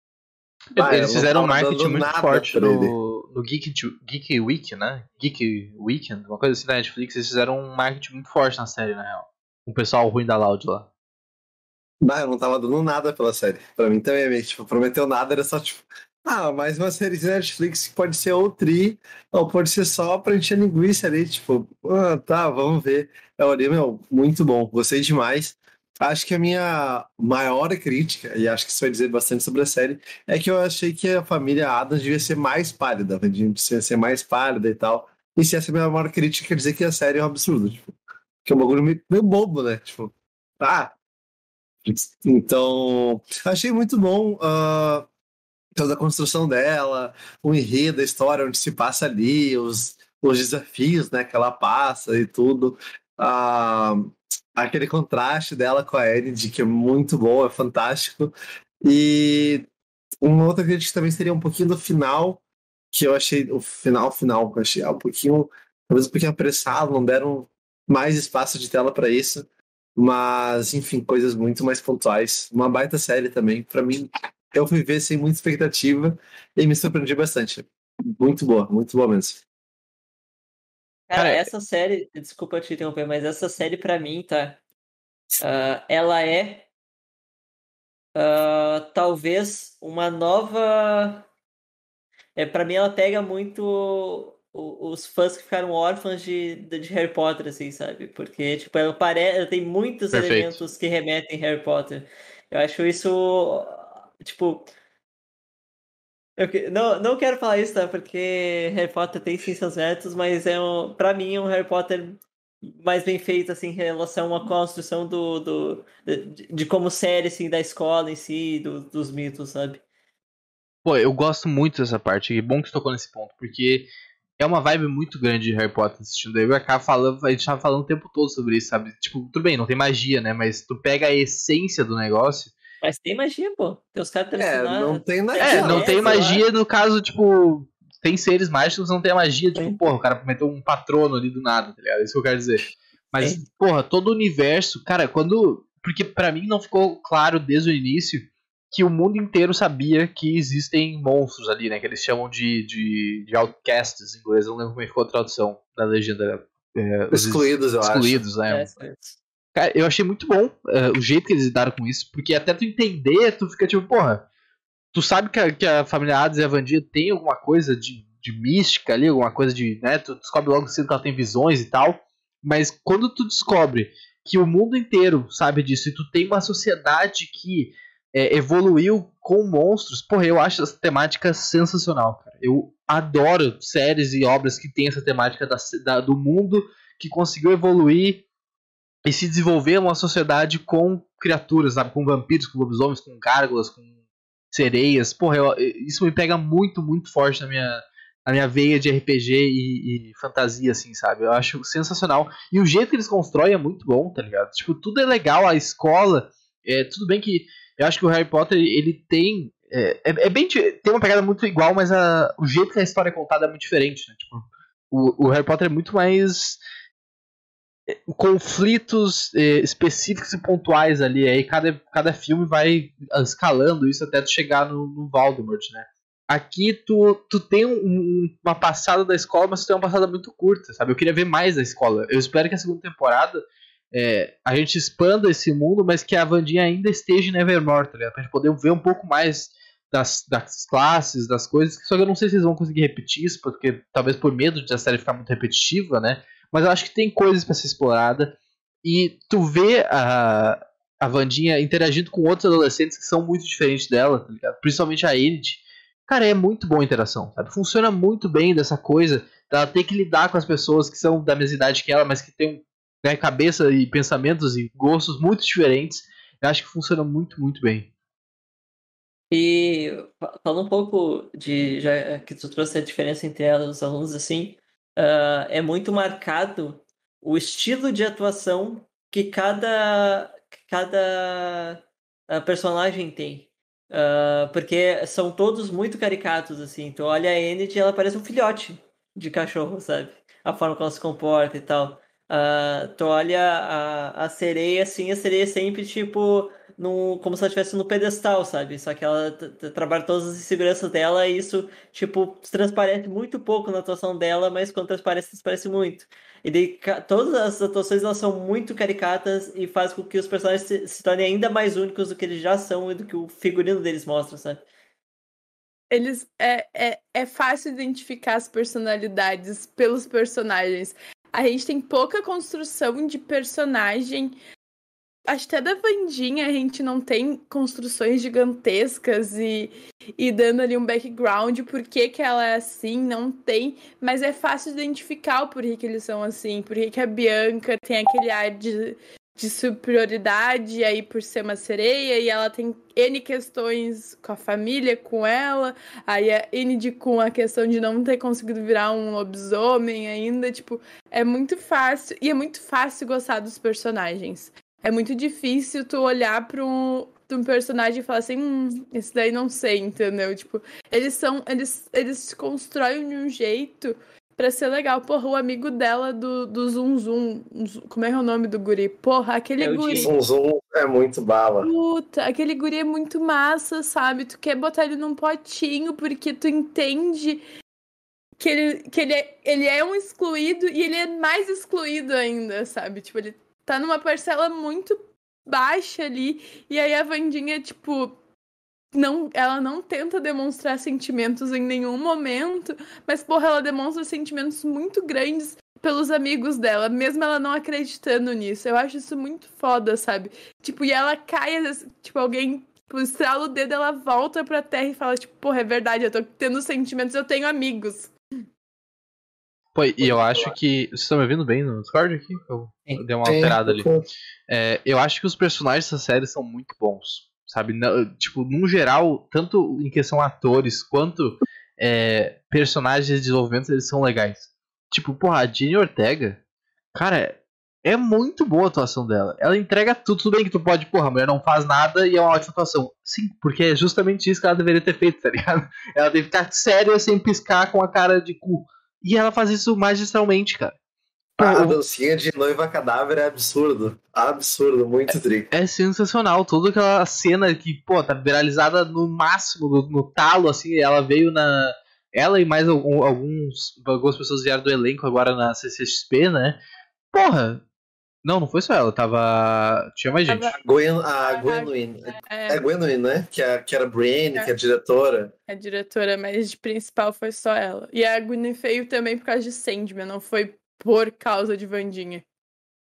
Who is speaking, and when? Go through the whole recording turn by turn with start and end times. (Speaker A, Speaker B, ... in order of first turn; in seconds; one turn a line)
Speaker A: 0.8-3.0
Speaker B: 0.8-10.9
Speaker A: 12.0-37.9
Speaker A: 38.5-40.9
Speaker A: 41.9-45.1
Speaker A: 45.8-59.7
Speaker A: 60.2-62.4
Speaker A: 62.9-79.4
Speaker C: 81.1-84.6
Speaker B: 81.2-81.5
Speaker C: 85.4-86.7
Speaker C: 88.2-91.3
Speaker C: 92.4-104.7
Speaker B: 100.1-100.6
Speaker C: 106.4-119.8
Speaker B: 120.8-123.9
Speaker B: 124.4-132.6
Speaker C: 132.8-136.5
Speaker A: 134.4-136.3
Speaker B: 135.4-158.7
Speaker A: 157.1-158.2
Speaker C: 158.5-159.2
Speaker B: 159.6-164.3
Speaker B: 164.9-188.2
Speaker B: 189.1-193.8
Speaker B: 194.5-216.6
Speaker B: 217.9-233.4
Speaker B: 233.9-267.9
Speaker C: 269.3-314.6
Speaker D: 315.9-324.4
Speaker D: 325.3-370.1
Speaker C: 369.6-370.1
Speaker A: 370.0-371.7
Speaker D: 371.6-377.4
Speaker D: 378.4-388.1
Speaker D: 388.9-408.1
Speaker B: 409.8-413.9
Speaker A: 410.0-410.6
Speaker A: 413.2-414.1
Speaker B: 414.5-426.4
Speaker B: 426.9-440.8
Speaker B: 441.4-441.8
Speaker A: 441.4-445.5
Speaker B: 445.1-456.6
Speaker B: 457.1-457.6
Speaker B: 458.2-460.6
Speaker D: 460.3-460.6
Speaker A: 460.6-465.3
Speaker D: 461.3-462.6
Speaker D: 465.5-472.2